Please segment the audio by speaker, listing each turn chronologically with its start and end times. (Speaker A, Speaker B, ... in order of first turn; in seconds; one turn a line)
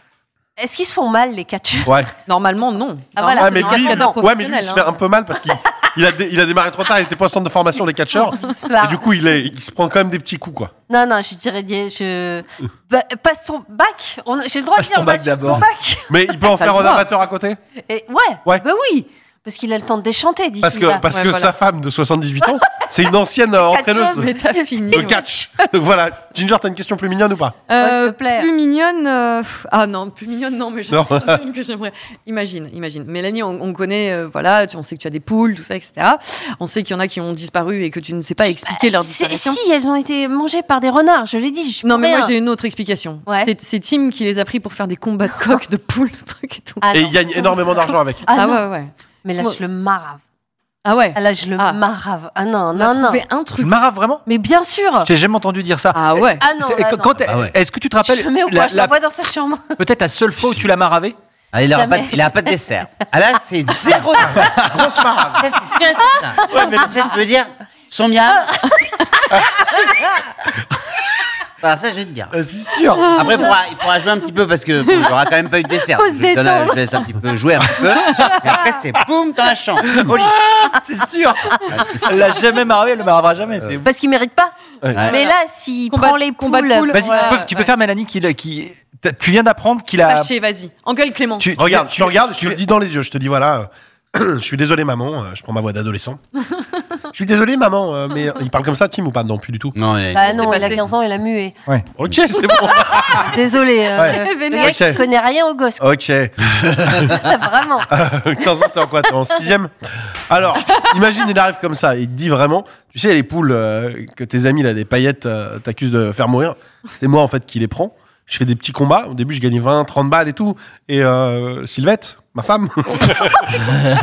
Speaker A: 0.6-2.1
Speaker B: 2.3-4.9
Speaker A: 3.1-4.3
Speaker C: 3.4-10.7
Speaker A: 8.2-9.1
Speaker A: 10.9-17.0
Speaker D: 14.8-15.7
Speaker C: 16.1-17.6
Speaker B: 16.6-17.0
Speaker A: 17.8-21.1
Speaker C: 20.6-24.3
Speaker B: 21.1-21.5
Speaker A: 22.5-22.9
Speaker A: 23.7-25.6
Speaker B: 24.2-25.2
Speaker C: 24.9-27.6
Speaker B: 27.7-39.6
Speaker A: 27.8-28.5
Speaker C: 30.9-31.4
Speaker A: 38.5-42.3
Speaker B: 41.8-46.9
Speaker A: 43.3-43.5
Speaker A: 46.8-48.6
Speaker C: 46.9-48.2
Speaker B: 48.2-49.6
Speaker A: 49.2-50.2
Speaker B: 50.9-51.8
Speaker A: 51.1-53.2
Speaker B: 52.8-53.8
Speaker D: 53.6-54.2
Speaker A: 54.3-55.1
Speaker D: 55.0-59.0
Speaker B: 55.9-56.5
Speaker A: 56.4-57.2
Speaker A: 58.0-59.8
Speaker D: 59.8-61.2
Speaker E: 61.5-64.5
Speaker A: 61.7-63.1
Speaker C: 64.2-65.5
Speaker D: 64.3-64.9
Speaker E: 65.4-68.4
Speaker D: 66.4-67.0
Speaker A: 66.5-66.9
Speaker A: 68.7-70.0
Speaker E: 71.6-72.3
Speaker D: 72.3-73.6
Speaker B: 73.0-73.4
Speaker A: 73.2-73.5
Speaker E: 73.5-80.3
Speaker A: 75.8-77.2
Speaker D: 77.8-79.0
Speaker B: 78.1-78.6
Speaker D: 79.8-83.9
Speaker A: 81.6-82.0
Speaker E: 81.7-82.3
Speaker A: 83.8-87.3
Speaker C: 84.8-85.1
Speaker B: 85.9-87.7
Speaker D: 86.9-90.3
Speaker B: 90.0-91.5
Speaker D: 91.4-92.6
Speaker C: 91.6-96.2
Speaker C: 97.1-99.8
Speaker E: 99.8-100.5
Speaker A: 100.1-101.5
Speaker B: 100.3-100.8
Speaker C: 102.0-103.4
Speaker A: 103.1-105.8
Speaker D: 104.0-104.2
Speaker B: 104.2-105.0
Speaker C: 104.6-105.0
Speaker C: 105.8-107.3
Speaker A: 107.1-107.9
Speaker C: 107.9-109.7
Speaker C: 110.3-123.8